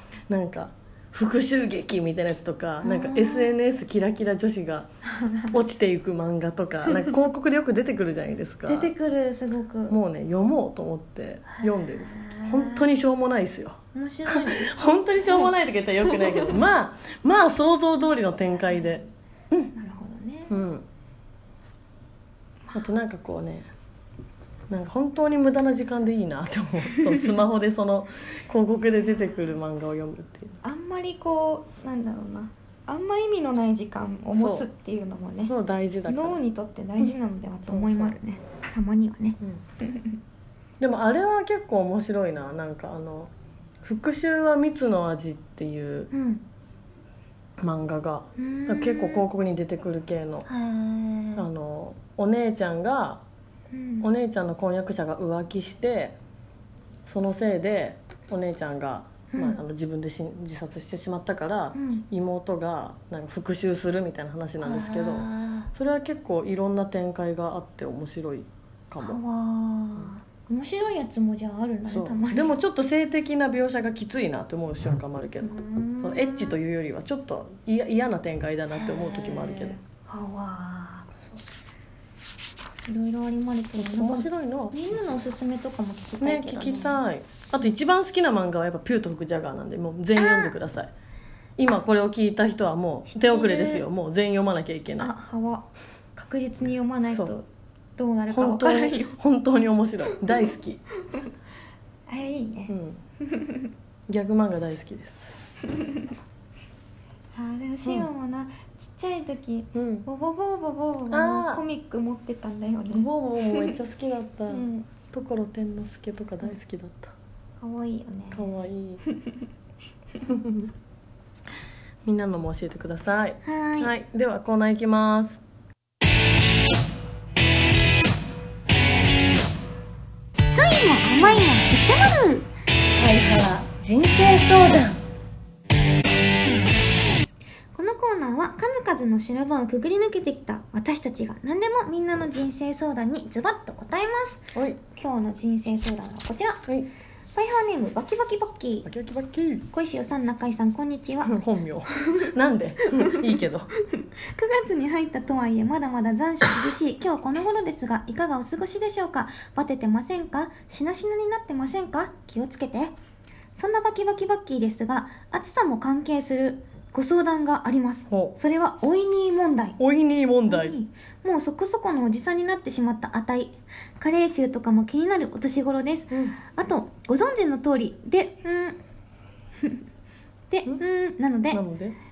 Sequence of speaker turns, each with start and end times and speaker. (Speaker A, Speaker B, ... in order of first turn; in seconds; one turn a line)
Speaker A: 0.3-4.9
Speaker B: 2.8-3.5
Speaker B: 5.1-5.5
Speaker A: 5.5-8.9
Speaker B: 8.7-10.0
Speaker A: 9.9-19.7
Speaker B: 11.5-12.8
Speaker B: 13.9-15.5
Speaker B: 16.1-16.6
Speaker B: 19.7-20.6
Speaker A: 20.5-20.8
Speaker A: 22.7-23.7
Speaker A: 24.7-30.6
Speaker B: 30.6-35.5
Speaker A: 34.3-34.7
Speaker A: 35.5-36.4
Speaker B: 36.1-40.1
Speaker A: 37.7-38.2
Speaker A: 40.8-43.3
Speaker A: 43.8-46.1
Speaker B: 46.1-46.4
Speaker A: 47.6-50.5
Speaker B: 48.4-49.2
Speaker B: 50.5-51.4
Speaker A: 51.4-53.2
Speaker B: 53.7-54.1
Speaker A: 54.0-56.2
Speaker A: 57.0-69.2
Speaker B: 59.3-59.6
Speaker B: 61.7-62.0
Speaker B: 64.6-65.7
Speaker B: 69.0-72.5
Speaker A: 71.9-79.8
Speaker B: 75.4-76.6
Speaker B: 78.7-81.1
Speaker B: 82.8-87.0
Speaker A: 83.8-85.2
Speaker A: 86.2-90.9
Speaker B: 90.2-90.5
Speaker A: 91.6-95.1
Speaker B: 93.1-93.8
Speaker B: 95.0-97.5
Speaker A: 97.1-97.3
Speaker B: 98.0-99.2
Speaker A: 98.3-100.8
Speaker B: 102.1-103.7
Speaker A: 102.7-103.0
Speaker A: 104.1-105.4
Speaker B: 107.3-113.7
Speaker A: 109.7-110.0
Speaker A: 111.1-111.6
Speaker A: 112.9-117.1
Speaker B: 114.5-114.9
Speaker B: 117.6-118.5
Speaker A: 118.3-119.0
Speaker A: 120.2-120.7
Speaker A: 122.0-125.4
Speaker B: 123.4-123.9
Speaker B: 130.4-132.5
Speaker A: 133.0-135.0
Speaker B: 137.7-146.6
Speaker A: 144.5-144.8
Speaker B: 147.3-148.9
Speaker A: 148.8-149.7
Speaker B: 149.7-151.3
Speaker A: 151.2-153.7
Speaker B: 152.0-152.3
Speaker B: 154.2-162.9
Speaker B: 163.6-169.8
Speaker A: 168.1-168.3
Speaker A: 169.8-170.8
Speaker B: 170.5-178.8
Speaker A: 176.1-176.4
Speaker B: 180.5-181.6
Speaker A: 181.5-181.9